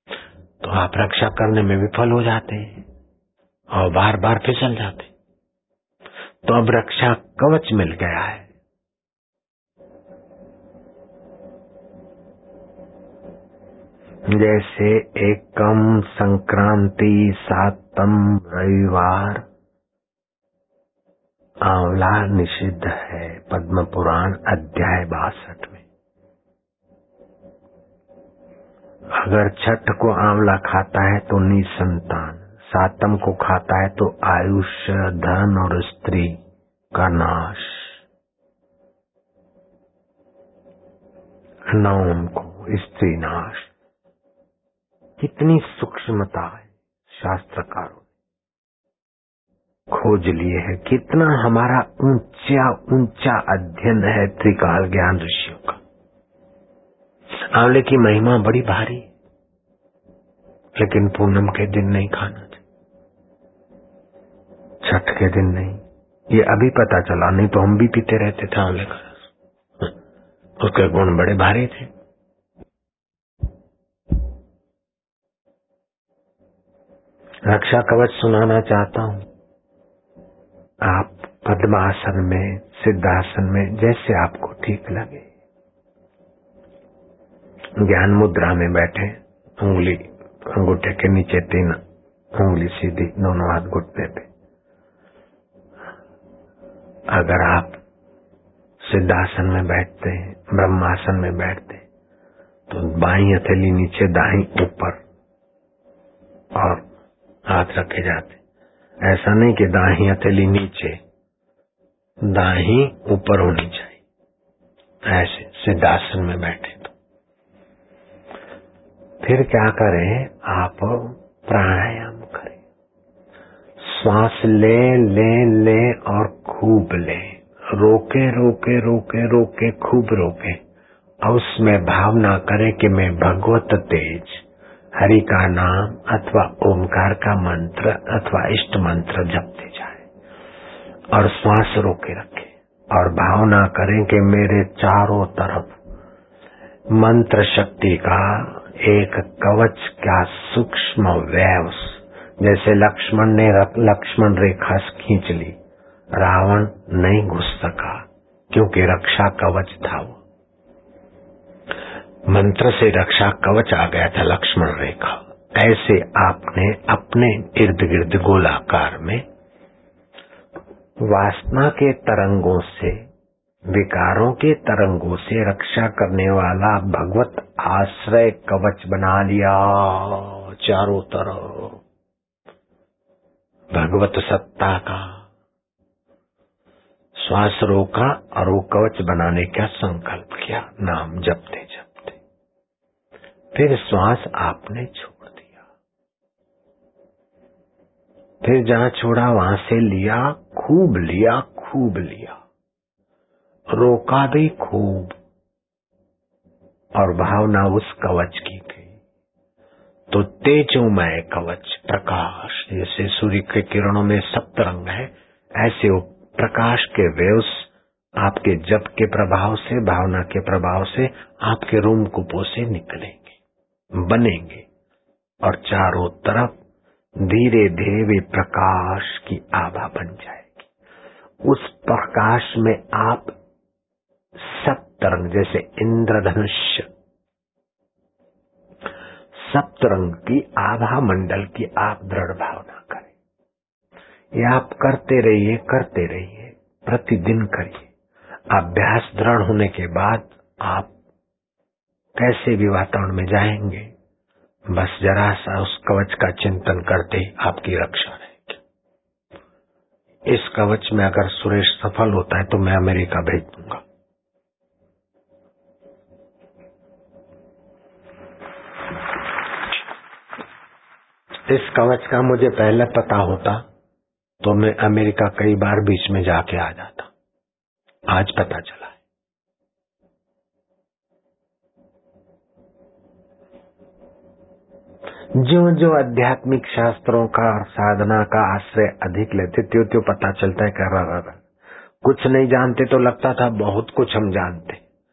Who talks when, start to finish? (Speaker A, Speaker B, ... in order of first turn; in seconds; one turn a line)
Speaker A: 0.6-2.8
Speaker A: 3.7-5.1
Speaker A: 6.4-8.5
Speaker A: 14.3-19.4
Speaker A: 21.6-25.8
Speaker A: 29.2-36.4
Speaker A: 36.9-38.0
Speaker A: 41.7-43.7
Speaker A: 45.2-48.0
Speaker A: 49.9-55.8
Speaker A: 57.5-59.1
Speaker A: 60.8-62.6
Speaker A: 64.8-65.8
Speaker A: 66.3-69.1
Speaker A: 70.6-71.9
Speaker A: 77.5-79.2
Speaker A: 80.8-85.2
Speaker A: 87.8-91.8
Speaker A: 92.3-94.3
Speaker A: 97.1-97.8
Speaker A: 98.8-101.8
Speaker A: 102.7-105.0
Speaker A: 106.5-106.8
Speaker A: 107.5-108.4
Speaker A: 109.0-111.0
Speaker A: 112.3-114.0
Speaker A: 115.0-116.9
Speaker A: 119.2-122.6
Speaker A: 123.8-130.6
Speaker A: 131.2-134.4
Speaker A: 135.0-140.0
Speaker A: 141.1-145.7
Speaker A: 146.9-155.6
Speaker A: 156.1-160.2
Speaker A: 162.3-169.2
Speaker A: 171.1-173.0
Speaker A: 173.7-181.8
Speaker A: 183.7-185.2
Speaker A: 187.2-192.2
Speaker A: 193.5-195.6
Speaker A: 198.4-202.4
Speaker A: 203.7-205.2
Speaker A: 206.9-208.9
Speaker A: 210.1-217.7
Speaker A: 218.2-223.4
Speaker A: 223.9-224.7
Speaker A: 225.4-226.5
Speaker A: 227.2-230.7
Speaker A: 231.4-233.3
Speaker A: 234.4-236.9
Speaker A: 239.5-243.1
Speaker A: 244.3-247.9
Speaker A: 248.5-250.9
Speaker A: 252.2-253.9
Speaker A: 254.7-258.6
Speaker A: 260.3-263.8
Speaker A: 271.5-273.6
Speaker A: 274.4-277.1
Speaker A: 278.1-279.0
Speaker A: 285.4-291.4
Speaker A: 292.0-294.8